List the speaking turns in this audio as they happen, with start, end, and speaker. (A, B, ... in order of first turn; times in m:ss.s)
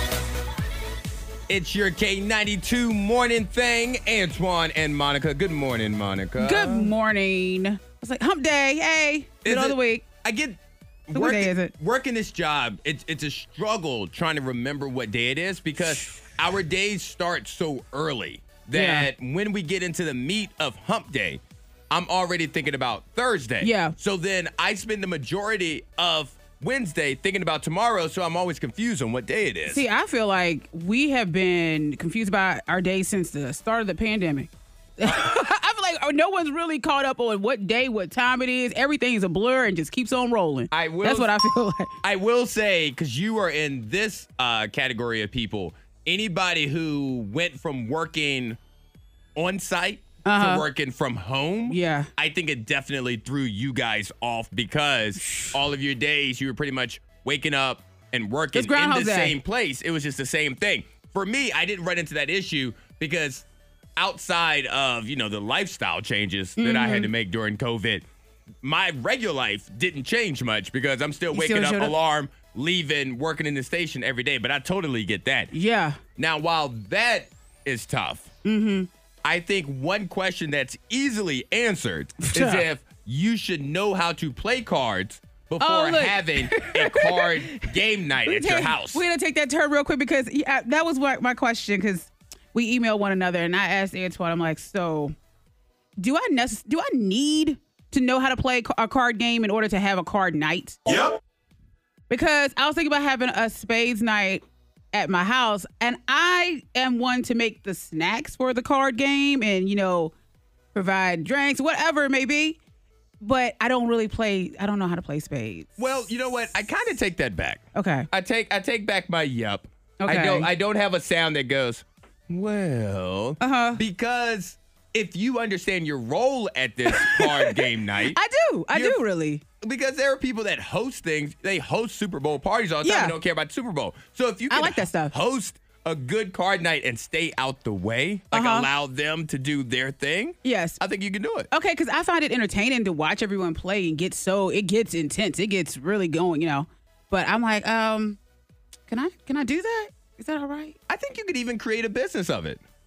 0:01.5-0:06.9 A
0:06.4-0:10.0 B
0:09.4-0:29.8 A
0:11.1-0:11.7 B
0:18.7-0:19.1 B
0:23.6-0:24.0 B
0:29.7-0:41.9 B
0:40.7-0:41.3 A
0:42.0-0:48.6 A
0:49.4-1:03.4 A
0:50.2-0:50.6 B
0:51.7-0:52.1 B
0:55.3-0:55.5 B
0:58.5-0:59.4 B
1:04.0-1:08.0 A
1:06.6-1:07.1 B
1:08.6-1:15.5 A
1:11.3-1:12.0 B
1:15.5-1:16.0 B
1:16.2-1:18.3 A
1:18.4-1:18.9 B
1:19.2-1:29.0 A
1:22.2-1:22.6 B
1:25.6-1:35.1 B
1:36.0-1:40.9 B
1:42.1-1:50.1 B
1:50.7-1:52.6 B
1:53.2-1:55.8 B
1:55.8-2:08.2 A
1:57.8-1:58.1 B
2:00.0-2:00.5 B
2:03.4-2:03.8 B
2:06.9-2:09.4 B
2:08.7-2:09.0 A
2:09.6-2:21.5 A
2:12.8-2:13.2 B
2:14.5-2:15.1 B
2:18.3-2:18.7 B
2:20.4-2:20.8 B
2:21.5-2:28.2 B
2:28.9-2:30.8 B
2:30.9-2:32.6 A